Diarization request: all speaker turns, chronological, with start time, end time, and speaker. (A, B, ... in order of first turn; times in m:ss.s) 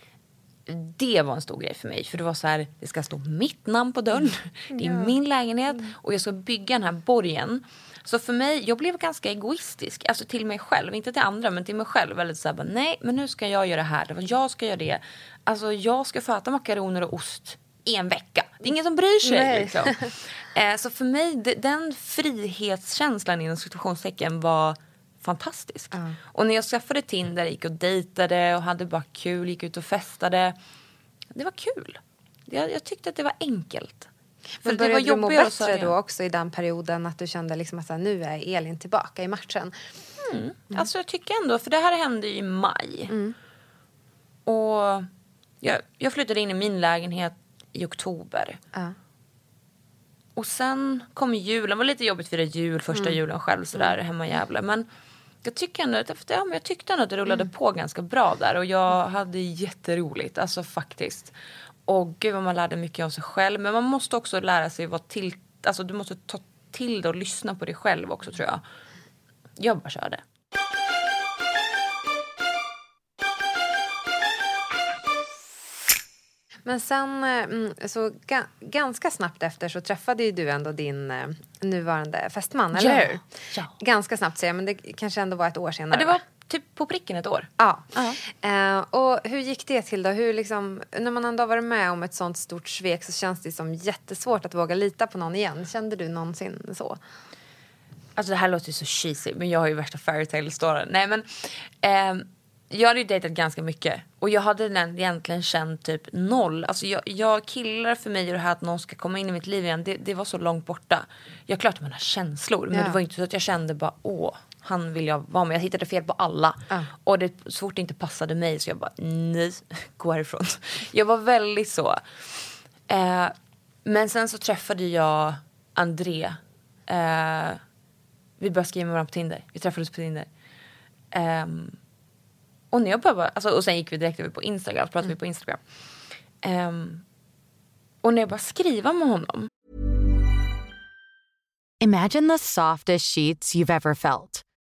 0:00.7-0:30.6 A
0:04.7-0:05.1 B
0:19.2-0:20.1 B
0:31.3-0:34.1 A
0:34.6-0:35.9 A
0:34.6-0:39.7 B
0:40.2-0:43.1 A
0:43.1-0:43.4 B
0:44.5-0:45.1 A
0:45.6-0:48.6 A
0:50.4-0:54.9 A
0:55.4-1:01.3 A
1:01.9-1:08.6 A
1:09.6-1:10.2 A
1:16.7-1:23.2 B
1:22.7-1:23.7 A
1:23.8-1:26.2 B
1:25.9-1:28.2 A
1:27.6-1:37.0 B
1:38.2-2:03.3 A
1:52.7-1:53.0 B
2:03.8-2:07.6 A
2:08.4-2:10.3 A
2:11.1-2:11.8 A
2:12.7-2:15.6 A
2:16.4-2:17.0 A
2:18.0-2:19.5 A
2:21.8-2:24.4 C